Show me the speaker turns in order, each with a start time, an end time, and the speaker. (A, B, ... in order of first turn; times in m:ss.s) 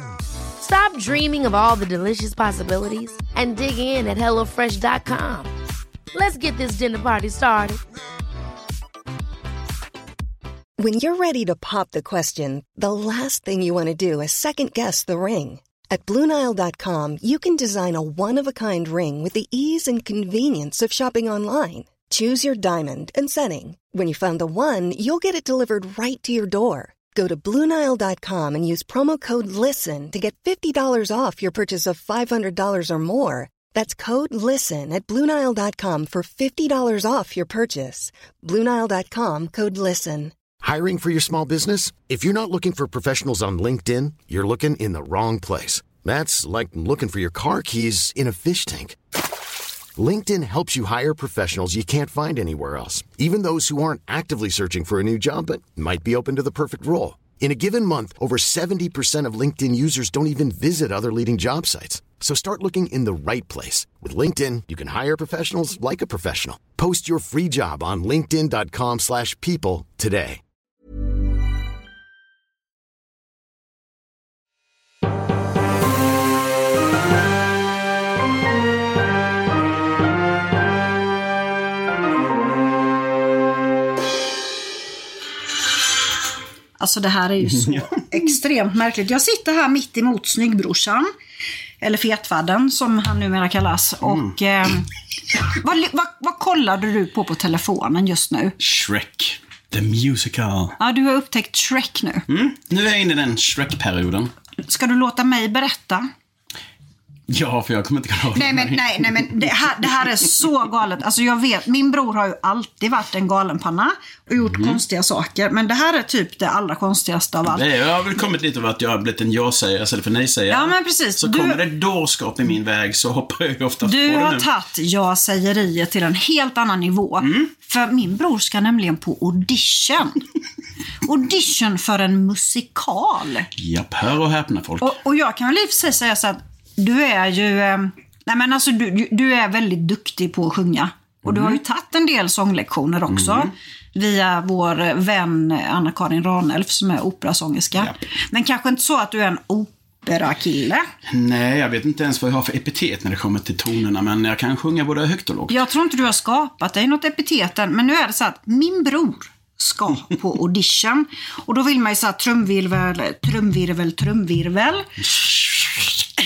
0:00.6-0:05.5 A
0:06.1-0:07.8 A
0:10.8-0:40.3 B
0:40.6-0:49.0 C
0:50.0-1:10.4 C
1:26.8-1:31.1 D
1:27.5-1:27.8 E
1:31.8-1:34.8 D
1:34.0-1:34.3 E
1:35.5-1:38.6 D
1:38.6-1:40.8 E
1:40.8-1:42.2 D
1:42.3-1:44.3 E
1:44.7-1:46.1 D
1:47.3-1:49.6 E
1:48.3-1:57.6 D
1:54.4-1:54.8 E
1:57.4-2:04.5 E
2:00.5-2:01.6 D
2:03.8-2:10.2 D
2:07.2-2:07.5 E
2:11.0-2:13.5 D
2:13.6-2:15.0 E
2:14.8-2:30.8 D
2:21.2-2:21.6 E
2:23.1-2:23.5 E
2:31.1-2:35.6 E
2:35.5-2:44.9 D
2:45.2-2:45.8 E